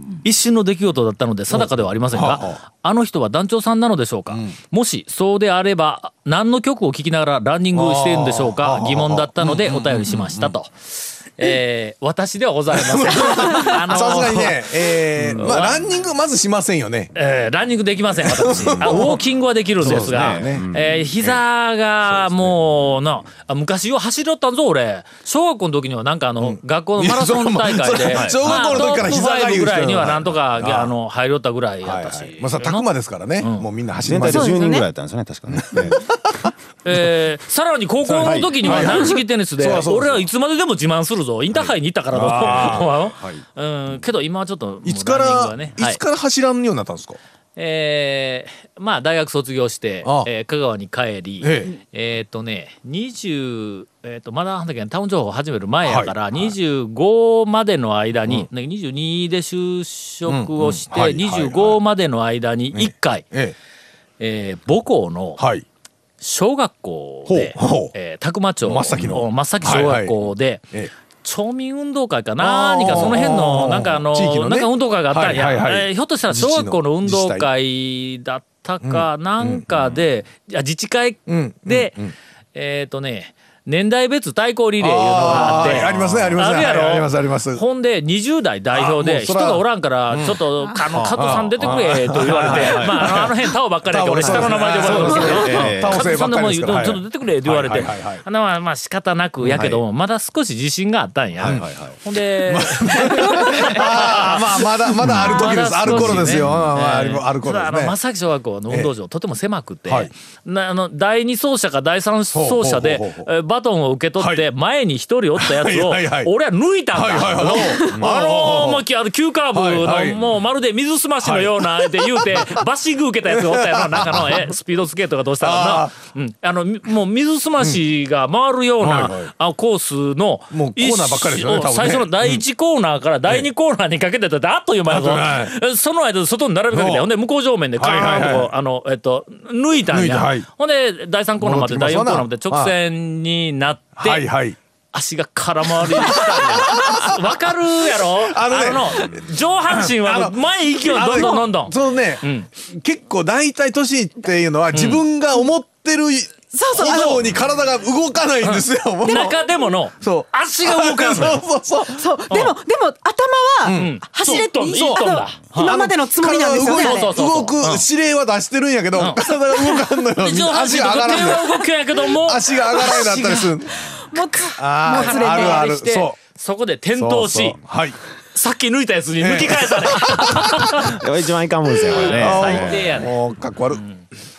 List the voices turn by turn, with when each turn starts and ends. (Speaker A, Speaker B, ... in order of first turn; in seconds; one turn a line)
Speaker A: 0.2-15.9
Speaker B: 1.5-2.6
Speaker B: 4.3-4.5
Speaker B: 7.7-10.6
Speaker B: 12.7-17.1
Speaker C: 15.2-15.5
Speaker A: 17.1-32.9
Speaker B: 18.2-19.2
Speaker C: 18.5-19.1
Speaker B: 19.8-21.4
Speaker C: 19.8-20.9
Speaker B: 22.0-22.6
Speaker B: 26.4-30.9
Speaker C: 28.1-28.4
Speaker B: 31.8-34.6
Speaker A: 33.4-33.7
Speaker C: 34.0-36.2
Speaker D: 34.3-34.9
Speaker B: 35.5-36.5
Speaker A: 36.8-46.0
Speaker B: 38.0-40.3
Speaker C: 38.2-39.1
Speaker B: 42.1-42.9
Speaker C: 42.4-43.4
Speaker B: 44.8-47.2
Speaker A: 47.6-63.3
Speaker B: 50.0-50.3
Speaker B: 51.4-51.7
Speaker B: 55.8-56.5
Speaker B: 60.3-61.8
Speaker B: 62.7-63.6
Speaker A: 64.2-65.4
Speaker B: 65.4-65.7
Speaker A: 66.2-70.7
Speaker B: 67.3-67.9
Speaker B: 68.6-70.2
Speaker A: 71.2-82.0
Speaker B: 72.4-77.5
Speaker B: 78.8-79.9
Speaker B: 81.3-82.1
Speaker A: 82.5-144.3
Speaker B: 84.8-87.6
Speaker C: 85.2-86.4
Speaker B: 88.7-90.4
Speaker C: 90.9-93.2
Speaker B: 91.1-98.2
Speaker C: 94.2-96.0
Speaker C: 99.5-99.8
Speaker C: 101.4-102.0
Speaker B: 101.4-101.7
Speaker B: 102.4-108.0
Speaker C: 105.0-106.7
Speaker B: 109.9-110.1
Speaker B: 112.3-113.3
Speaker B: 114.2-114.5
Speaker B: 115.4-116.3
Speaker B: 116.9-118.8
Speaker B: 119.5-120.4
Speaker B: 121.2-122.6
Speaker B: 123.3-124.5
Speaker B: 125.4-125.9
Speaker B: 128.8-129.3
Speaker B: 130.5-132.4
Speaker B: 134.9-135.6
Speaker B: 136.7-137.1
Speaker B: 137.8-138.5
Speaker B: 139.9-140.5
Speaker B: 141.4-142.7
Speaker B: 144.0-144.6
Speaker A: 144.9-152.5
Speaker B: 145.8-159.4
Speaker A: 154.7-155.0
Speaker D: 156.5-157.2
Speaker A: 158.4-161.4
Speaker D: 159.1-159.7
Speaker B: 160.0-162.1
Speaker D: 161.9-167.1
Speaker A: 162.3-162.6
Speaker B: 163.6-171.6
Speaker A: 163.7-165.8
Speaker A: 166.6-167.9
Speaker A: 169.0-173.2
Speaker B: 172.2-173.9
Speaker D: 172.6-175.7
Speaker B: 174.6-176.2
Speaker A: 174.9-177.6
Speaker B: 177.0-178.0
Speaker A: 178.3-181.0
Speaker B: 179.2-180.9
Speaker C: 180.7-183.0
Speaker A: 181.9-183.2
Speaker B: 182.1-183.8
Speaker A: 183.8-184.0